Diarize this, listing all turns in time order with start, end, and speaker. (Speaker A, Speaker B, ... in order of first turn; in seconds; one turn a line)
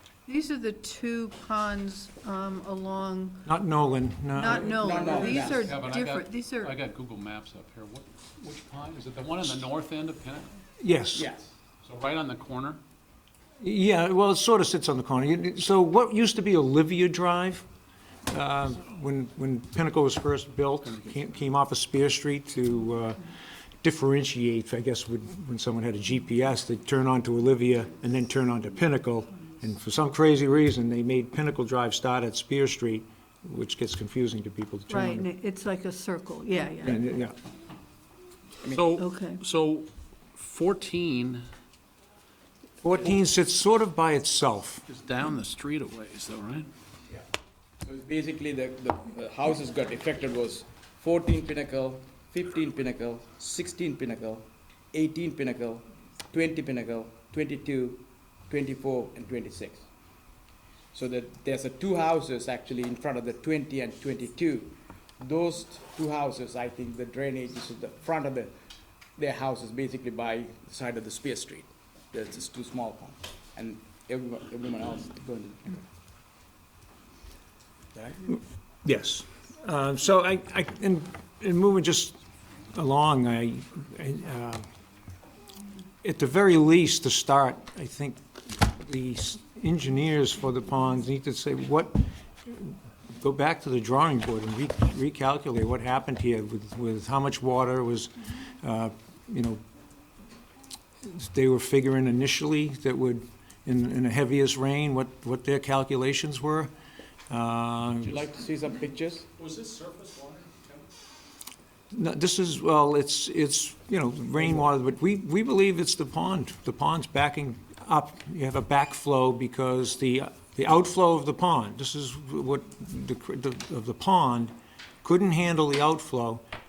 Speaker A: 0.2-3.4
Speaker B: 3.4-5.0
Speaker A: 4.3-6.8
Speaker C: 4.6-5.7
Speaker D: 5.0-10.5
Speaker B: 10.8-11.3
Speaker C: 11.1-11.5
Speaker D: 11.8-12.8
Speaker B: 13.6-17.6
Speaker B: 18.3-35.3
Speaker A: 34.9-37.0
Speaker B: 36.8-37.3
Speaker D: 38.7-41.4
Speaker A: 39.0-39.4
Speaker B: 42.8-44.8
Speaker D: 44.9-46.7
Speaker C: 47.8-59.9
Speaker C: 60.9-68.5
Speaker C: 69.2-75.8
Speaker C: 77.9-78.2
Speaker B: 78.3-82.2
Speaker B: 82.7-84.7
Speaker B: 86.0-99.6
Speaker B: 101.0-106.7
Speaker B: 107.3-108.2
Speaker C: 108.0-109.3
Speaker D: 109.4-110.9
Speaker B: 111.9-126.4